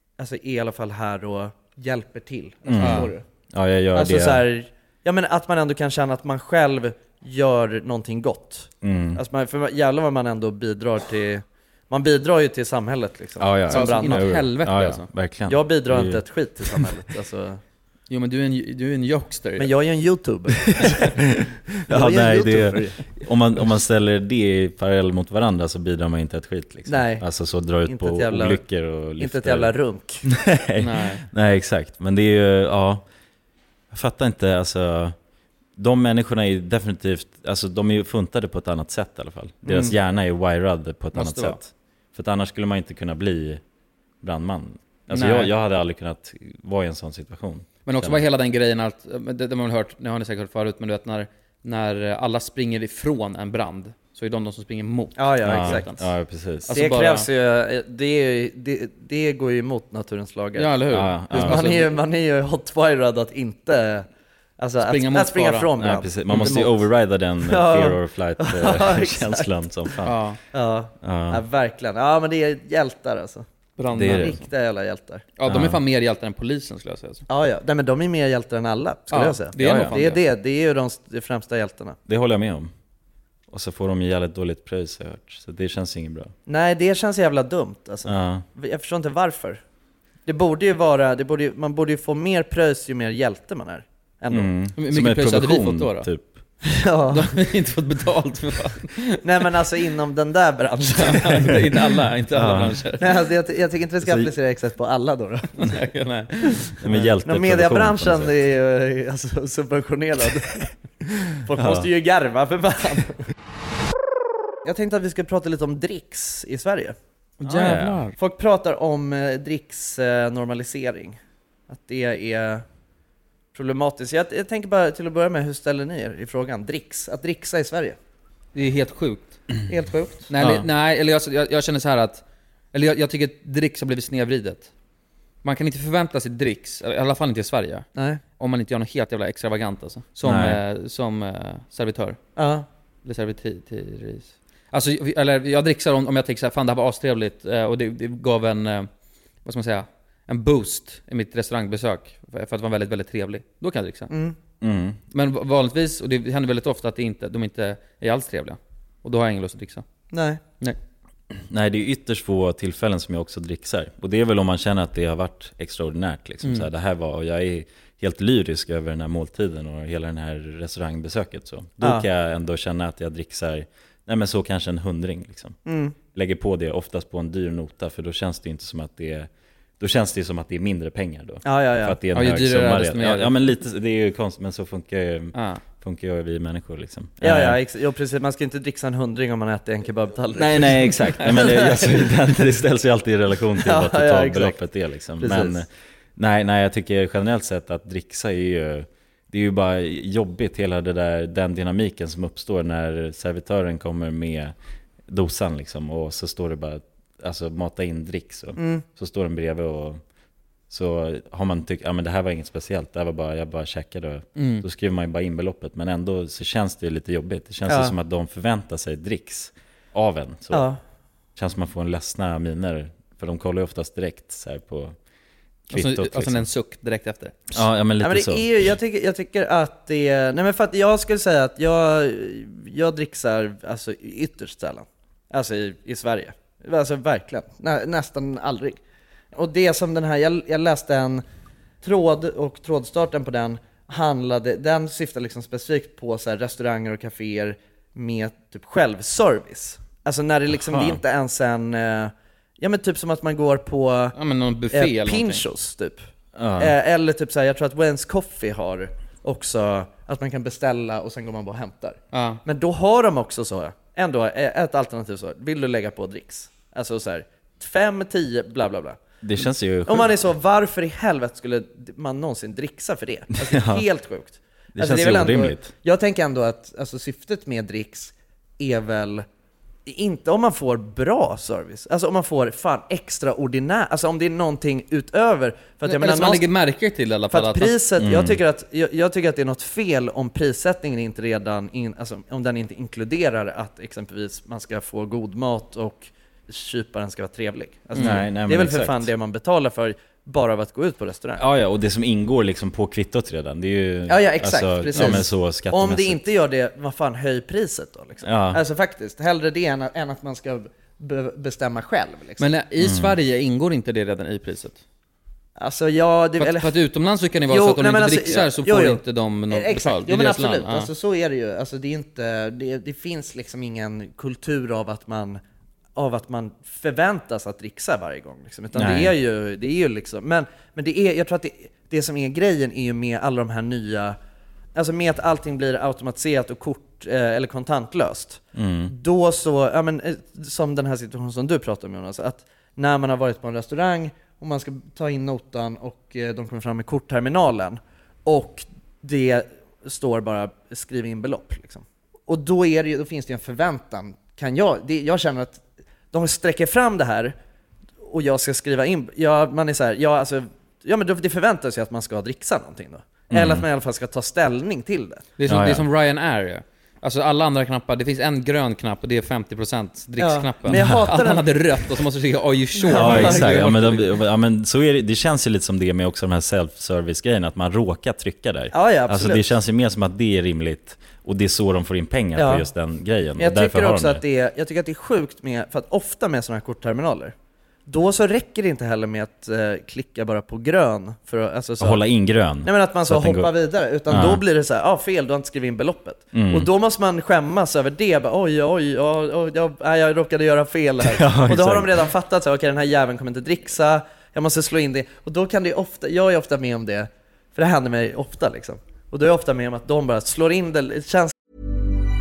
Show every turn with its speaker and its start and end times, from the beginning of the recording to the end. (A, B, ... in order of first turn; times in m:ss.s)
0:00.2-0:03.2 A
0:02.7-0:04.4 B
0:02.8-0:03.1 C
0:04.0-0:14.3 A
0:08.8-0:09.2 B
0:13.4-0:16.9 B
0:13.7-0:15.1 C
0:15.5-0:17.6 A
0:18.1-0:19.7 C
0:19.6-0:21.2 A
0:20.8-0:29.7 B
0:21.9-0:23.0 A
0:26.9-0:27.3 A
0:27.8-0:28.6 A
0:29.2-0:30.2 A
0:30.3-0:33.0 B
0:30.8-0:31.3 C
0:33.9-0:35.2 B
0:35.8-0:43.6 B
0:39.7-0:40.0 A
0:41.1-0:41.6 C
0:44.2-0:48.2 B
0:45.1-0:45.5 C
0:47.9-0:56.0 C
0:55.2-0:56.0 A
0:55.4-0:56.7 B
0:56.7-0:57.3 C
0:56.7-1:00.8 A
1:00.6-1:02.0 C
1:00.9-1:01.7 B
1:01.3-1:04.1 A
1:04.6-1:06.8 A
1:04.8-1:05.7 C
1:05.8-1:10.2 B
1:07.4-1:09.5 A
1:10.0-1:10.4 C
1:10.5-1:13.4 A
1:11.0-1:11.4 B
1:13.8-1:14.4 C
1:13.9-1:14.4 B
1:14.1-1:15.3 A
1:15.4-1:17.3 C
1:15.4-1:15.8 B
1:17.3-1:22.0 A
1:19.1-1:20.2 C
1:19.6-1:20.0 B
1:22.1-1:22.7 B
1:23.5-1:26.3 B
1:26.5-1:29.6 A
1:28.0-1:28.4 B
1:30.3-1:34.5 A
1:34.3-1:36.3 B
1:34.8-1:36.1 C
1:36.6-1:37.4 A
1:37.1-1:39.2 C
1:39.2-1:41.6 A
1:41.0-1:43.1 C
1:42.3-1:42.8 B
1:43.0-1:45.6 A
1:44.0-1:44.3 B
1:45.6-1:46.8 C
1:46.8-1:48.3 B
1:47.2-1:50.7 A
1:51.4-1:53.2 A
1:51.5-1:51.9 B
1:54.6-1:57.0 A
1:57.4-1:58.1 C
1:57.4-1:58.0 B
1:58.2-2:01.2 A
2:01.7-2:02.6 A
2:03.5-2:08.0 A
2:08.5-2:09.4 C
2:09.7-2:10.3 A
2:10.3-2:14.7 C
2:10.4-2:10.6 B
2:15.4-2:22.2 C
2:18.0-2:18.2 A
2:20.2-2:20.6 B
2:22.4-2:22.7 A
2:23.0-2:28.9 C
2:29.4-2:34.1 C
2:34.1-2:34.4 A
2:34.6-2:35.0 B
2:35.1-2:39.8 C
2:40.1-2:40.4 A
2:41.5-2:55.6 B
2:55.7-2:56.0 A
2:56.1-2:59.3 B
2:59.8-3:07.6 B
3:01.4-3:02.0 A
3:02.1-3:03.3 C
3:05.3-3:05.6 C
3:07.2-3:12.1 A
3:10.3-3:24.5 B
3:13.6-3:14.6 A
3:15.2-3:15.6 A
3:25.1-3:30.0 B
3:28.6-3:28.8 A
3:30.7-3:40.7 B
3:34.4-3:34.6 C
3:37.7-3:37.9 A
3:40.5-3:40.8 A
3:41.4-3:45.0 B
3:45.7-3:46.5 B
3:45.7-3:47.5 C
3:47.5-3:48.7 B
3:48.0-3:58.8 A
3:59.3-4:01.2 A
4:01.8-4:14.2 A
4:10.7-4:11.0 B
4:14.1-4:15.4 C
4:14.7-4:16.0 A
4:16.4-4:16.7 B
4:16.6-4:29.0 A
4:22.1-4:22.4 C
4:29.2-4:30.1 B
4:29.9-4:39.2 A
4:33.4-4:33.8 B
4:34.7-4:35.7 B
4:39.9-4:46.5 A
4:45.8-4:47.7 C
4:47.3-5:01.4 A
4:48.0-4:48.4 B
4:57.9-4:58.2 C
4:58.0-4:59.1 B
5:01.4-5:06.2 B
5:04.1-5:12.5 A
5:05.0-5:05.2 C
5:08.2-5:08.6 B
5:12.4-5:14.8 C
5:12.8-5:13.1 B
5:15.6-5:16.7 A
5:16.4-5:20.9 C
5:17.5-5:25.4 A
5:26.0-5:34.2 A
5:28.7-5:29.1 B
5:34.7-5:57.3 A
5:38.6-5:38.9 B
5:58.0-6:05.3 A
6:03.3-6:03.6 B
6:05.4-6:14.1 C
6:05.5-6:05.9 B
6:10.2-6:11.6 A
6:10.7-6:11.1 B
6:12.8-6:13.7 A
6:12.9-6:24.2 B
6:18.7-6:19.5 A
6:22.4-6:22.7 A
6:23.4-6:27.3 A
6:27.9-6:32.0 A
6:31.8-6:33.5 B
6:32.6-6:51.3 A
6:34.1-6:34.4 B
6:36.3-6:36.7 B
6:41.0-6:41.9 B